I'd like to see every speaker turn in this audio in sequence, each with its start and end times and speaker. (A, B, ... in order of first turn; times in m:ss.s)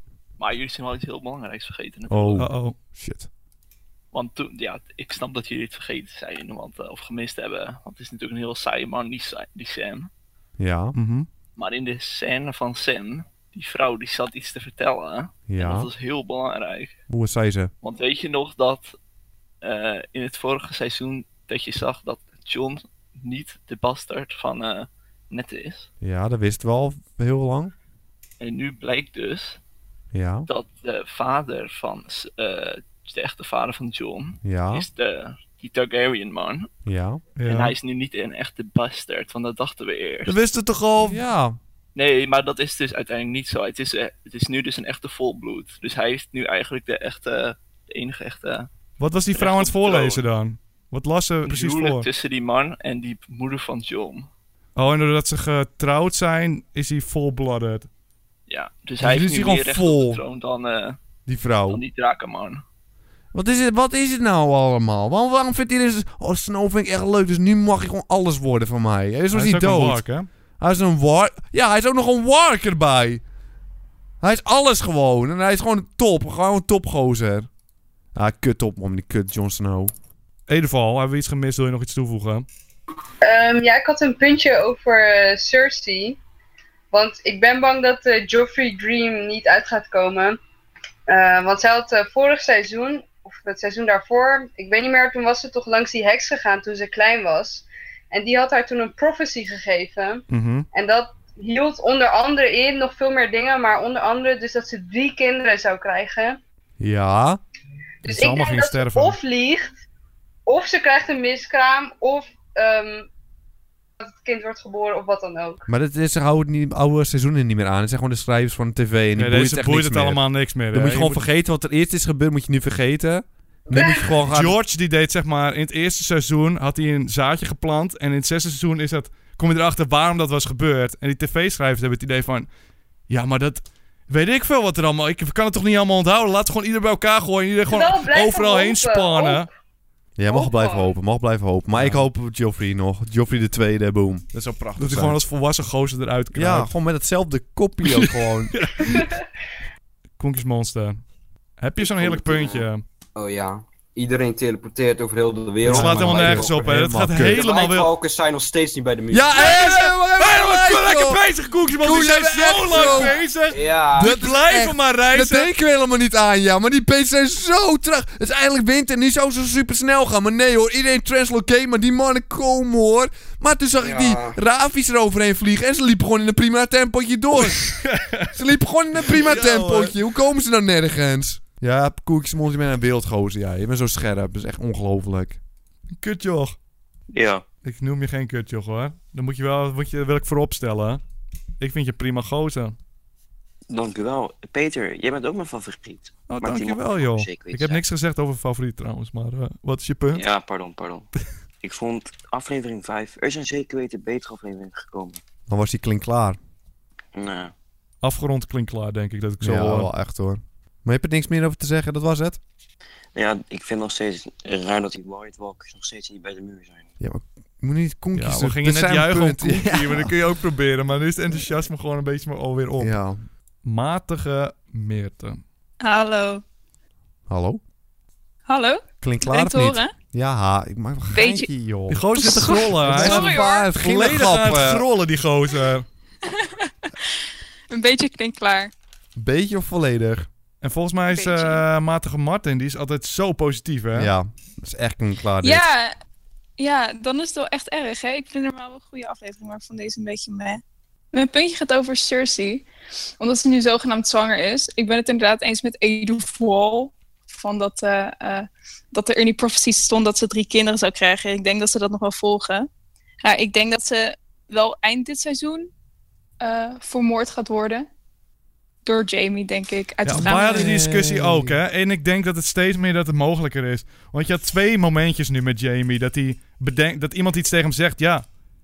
0:00.4-0:02.4 A
0:02.1-0:03.3 B
0:02.4-0:02.8 C
0:04.1-0:10.1 A
0:10.6-0:11.0 B
0:11.0-0:11.3 C
0:11.6-0:17.0 A
0:15.5-0:15.9 B
0:17.1-0:17.7 B
0:17.8-0:19.0 A
0:19.6-0:25.9 A
0:26.0-0:27.7 B
0:28.4-0:29.6 A
0:30.1-0:30.5 B
0:30.5-0:36.7 A
0:34.4-0:34.9 B
0:36.9-0:37.2 B
0:37.4-0:37.7 C
0:37.5-0:40.3 A
0:40.3-0:41.2 C
0:41.0-0:41.6 B
0:42.0-0:48.7 A
0:49.0-0:52.1 C
0:49.4-0:50.2 A
0:51.4-0:54.3 A
0:54.8-0:57.9 C
0:58.5-1:01.0 A
0:59.0-1:00.2 B
1:01.3-1:01.8 B
1:01.7-1:02.6 A
1:03.3-1:10.0 B
1:09.3-1:10.3 C
1:10.6-1:13.2 B
1:14.2-1:17.5 B
1:18.2-1:19.9 B
1:20.5-1:22.5 C
1:23.2-1:26.2 D
1:26.9-1:30.4 D
1:31.1-1:46.4 D
1:40.3-1:40.7 C
1:46.8-1:47.4 B
1:48.0-1:49.7 D
1:48.1-1:49.2 C
1:50.5-1:53.1 D
1:54.0-1:55.6 D
1:55.7-2:04.6 B
1:59.2-2:01.2 C
2:03.7-2:04.1 D
2:04.3-2:12.5 C
2:13.1-2:19.5 C
2:17.7-2:19.5 D
2:20.2-2:25.2 B
2:20.3-2:20.9 D
2:21.7-2:22.1 C
2:24.8-2:26.7 C
2:26.3-2:28.6 B
2:27.8-2:29.1 C
2:28.9-2:29.1 D
2:30.2-2:31.0 C
2:31.6-2:32.8 C
2:32.0-2:32.5 E
2:33.2-2:39.5 E
2:35.6-2:37.4 B
2:35.7-2:37.9 C
2:39.1-2:41.2 B
2:39.4-2:45.5 C
2:41.8-2:43.2 B
2:42.7-2:44.2 E
2:44.0-3:05.4 B
2:53.8-2:54.4 E
2:57.4-2:58.3 C
2:59.0-3:00.0 C
3:06.0-3:06.6 C
3:07.1-3:07.4 F
3:07.6-3:11.0 C
3:11.6-3:12.8 C
3:13.7-3:17.8 F
3:16.3-3:20.2 C
3:20.1-3:21.1 F
3:21.6-3:25.2 F
3:25.5-3:26.4 B
3:27.2-3:27.5 F
3:28.0-3:29.9 C
3:29.4-3:32.4 B
3:33.2-3:36.9 F
3:37.0-3:40.2 B
3:38.2-3:43.0 C
3:42.8-3:43.2 B
3:43.6-3:45.4 C
3:45.8-3:46.4 G
3:47.3-3:47.6 B
3:48.5-3:49.9 G
3:49.0-3:54.8 B
3:51.1-3:51.5 G
3:51.9-3:55.9 C
3:52.2-3:53.7 G
3:56.2-3:57.1 G
3:57.7-3:58.7 G
3:59.2-4:00.3 B
4:00.6-4:04.1 C
4:01.1-4:01.6 G
4:04.0-4:05.7 B
4:05.4-4:05.9 G
4:06.6-4:10.6 G
4:11.1-4:12.7 G
4:13.2-4:22.7 G
4:23.2-4:25.7 G
4:26.4-4:27.9 G
4:28.8-4:30.8 G
4:30.0-4:38.3 C
4:30.1-4:31.6 B